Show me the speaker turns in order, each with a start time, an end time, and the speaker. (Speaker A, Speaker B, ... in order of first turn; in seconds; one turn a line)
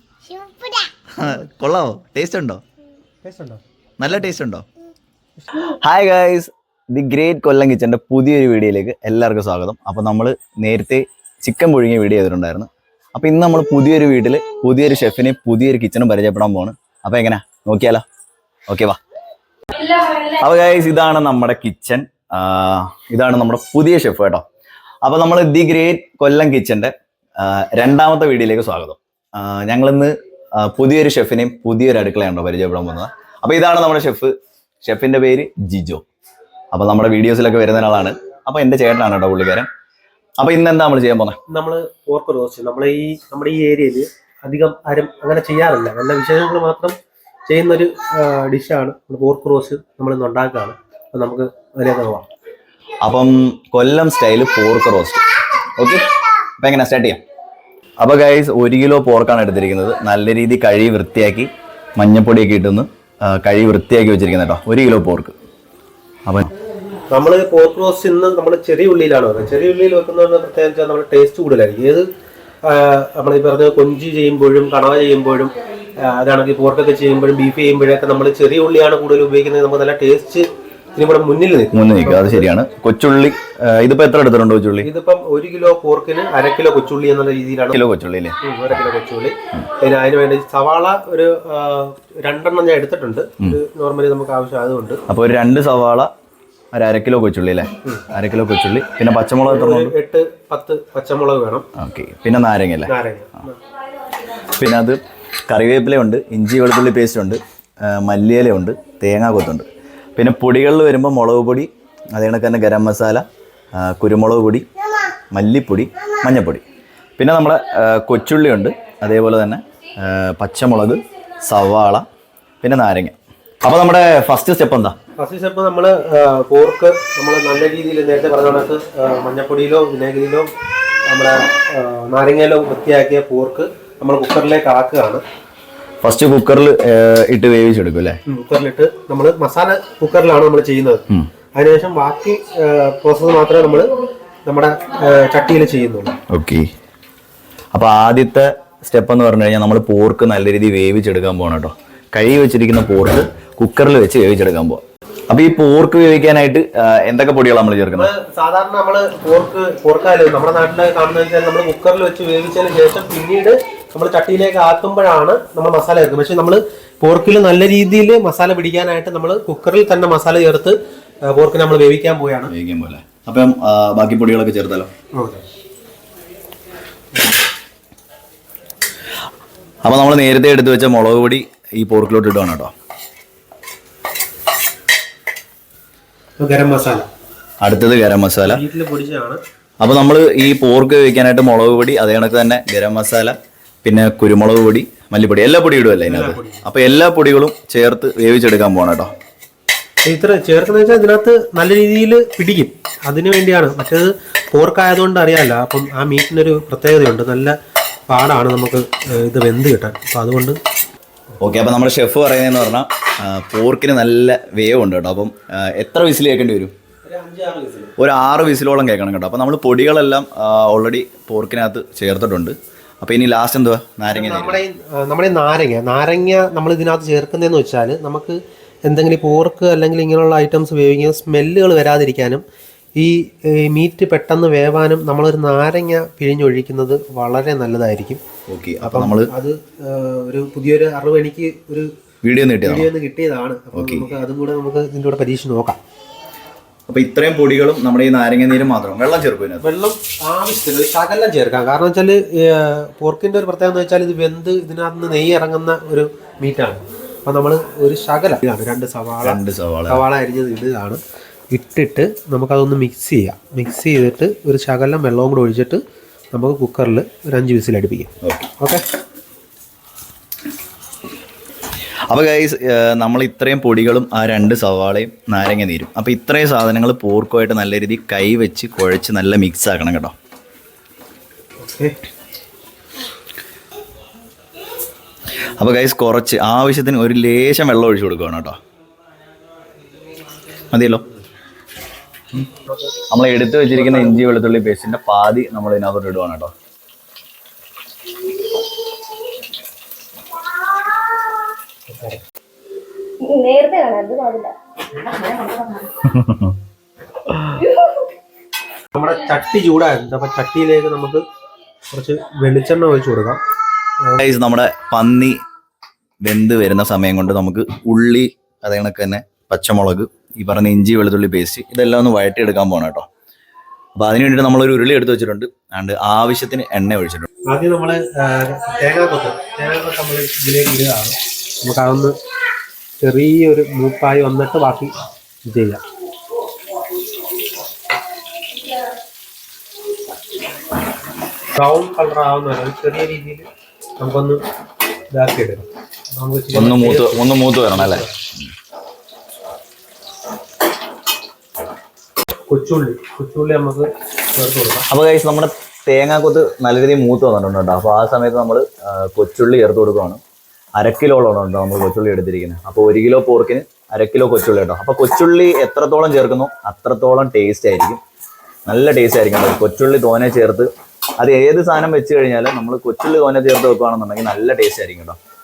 Speaker A: 1.1-2.6
Speaker B: 3.2-3.6
Speaker A: 4.0-4.7
Speaker B: 5.4-5.7
Speaker A: 5.6-18.0
Speaker A: 18.7-19.0
Speaker A: 19.8-24.4
Speaker A: 25.1-36.0
Speaker A: 36.7-39.7
Speaker A: 40.4-41.4
Speaker B: 41.5-47.0
Speaker B: 47.5-52.3
Speaker A: 53.0-55.2
Speaker A: 55.8-56.0
Speaker A: 56.6-57.2
Speaker A: 58.0-65.3
Speaker B: 67.1-72.1
Speaker B: 72.7-82.5
Speaker A: 81.7-84.9
Speaker B: 84.8-87.8
Speaker A: 87.7-88.4
Speaker B: 88.4-95.0
Speaker A: 95.1-96.1
Speaker A: 96.7-99.9
Speaker B: 99.4-101.7
Speaker A: 101.8-102.9
Speaker B: 102.9-103.6
Speaker A: 104.6-114.7
Speaker A: 115.3-116.6
Speaker A: 117.2-122.1
Speaker A: 122.6-125.0
Speaker B: 125.2-130.5
Speaker B: 131.1-135.2
Speaker A: 136.0-138.2
Speaker B: 138.3-146.2
Speaker A: 146.3-146.7
Speaker A: 147.7-158.1
Speaker B: 157.9-170.8
Speaker B: 171.3-172.5
Speaker A: 172.5-174.9
Speaker B: 175.2-175.4
Speaker A: 179.8-182.7
Speaker B: 186.4-187.1
Speaker A: 187.6-188.6
Speaker B: 188.4-189.4
Speaker A: 189.8-199.1
Speaker B: 196.1-196.7
Speaker B: 200.1-207.6
Speaker B: 208.1-210.6
Speaker A: 211.4-216.7
Speaker B: 217.1-217.9
Speaker A: 218.0-224.6
Speaker B: 224.1-232.4
Speaker B: 233.0-238.2
Speaker A: 238.5-239.3
Speaker B: 238.8-241.9
Speaker A: 242.2-242.9
Speaker B: 242.6-245.8
Speaker A: 243.7-244.1
Speaker A: 246.9-249.7
Speaker B: 249.6-261.0
Speaker A: 259.2-260.0
Speaker B: 261.5-265.8
Speaker B: 266.3-268.8
Speaker A: 272.1-280.1
Speaker B: 281.6-282.0
Speaker A: 285.6-288.6
Speaker A: 290.7-291.0
Speaker B: 292.7-293.0
Speaker A: 293.1-296.5
Speaker B: 293.7-294.2
Speaker B: 301.9-302.2
Speaker C: 303.2-305.9
Speaker A: 306.0-306.6
Speaker A: 307.3-307.6
Speaker B: 308.9-311.2
Speaker B: 311.9-313.4
Speaker A: 314.2-315.4
Speaker A: 316.2-323.1
Speaker A: 324.0-327.3
Speaker B: 327.5-332.1
Speaker B: 333.0-334.9
Speaker B: 335.5-335.8
Speaker B: 341.6-343.5
Speaker B: 344.0-344.4
Speaker B: 345.1-348.2
Speaker A: 346.5-348.1
Speaker B: 352.5-354.9
Speaker A: 354.9-360.2
Speaker A: 360.8-368.0
Speaker A: 368.7-370.7
Speaker A: 371.2-375.2